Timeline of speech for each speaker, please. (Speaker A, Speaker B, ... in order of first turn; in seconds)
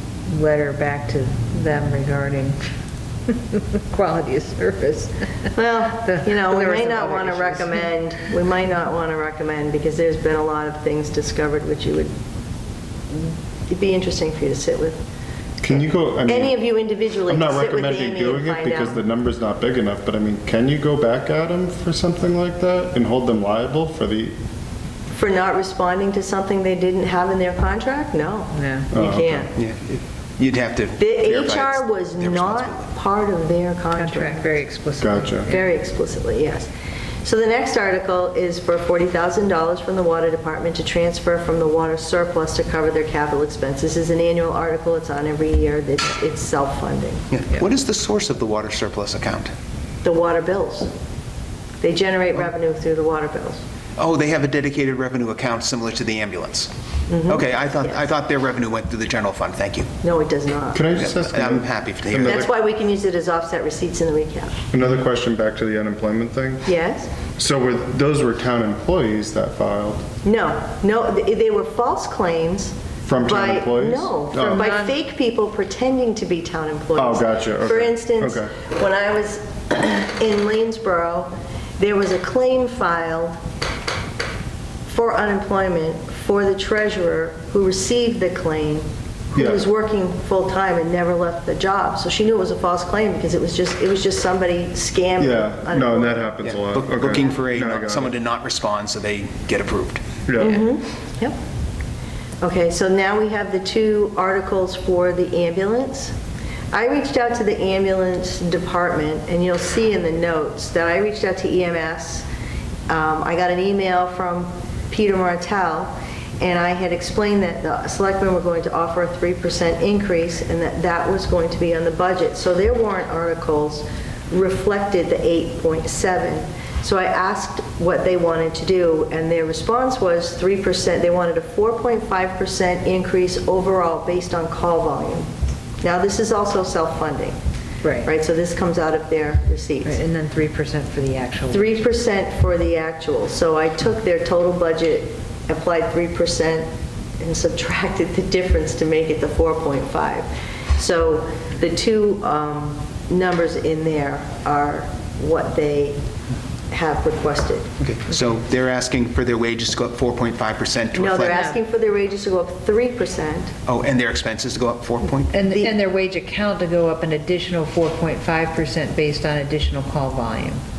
Speaker A: 0.3-2.6, 3.3-7.9, 28.5-28.9, 33.9-35.7, 74.5-74.9, 137.8-138.1, 139.8-141.8, 161.3-161.6, 165.3-170.6
Speaker B: 5.5-12.1, 13.1-15.0, 16.2-19.0, 25.1-29.5, 31.0-34.5, 35.5-36.7, 37.2-47.3, 50.0-50.9, 51.8-53.6, 57.1-58.0, 60.0-60.9, 62.2-64.5, 66.6-67.1, 70.2-83.4, 84.8-96.3, 100.4-101.3, 102.4-106.1, 106.7-112.3, 112.9-135.3, 135.8-137.3, 138.0-140.0, 141.5-156.0, 156.7-157.7, 160.9-163.5, 165.5-165.8
Speaker C: 15.6-16.7, 17.3-24.4, 28.9-29.5, 35.0-35.5, 60.7-62.5, 64.7-66.7, 67.4-70.0, 73.0-74.7, 77.0-78.5, 89.3-89.6, 95.2-98.1, 100.2-100.6
Speaker D: 29.5-32.8, 47.3-49.5, 54.0-56.7, 57.3-59.9, 61.0-62.4, 96.4-100.0, 157.8-161.5, 163.7-165.3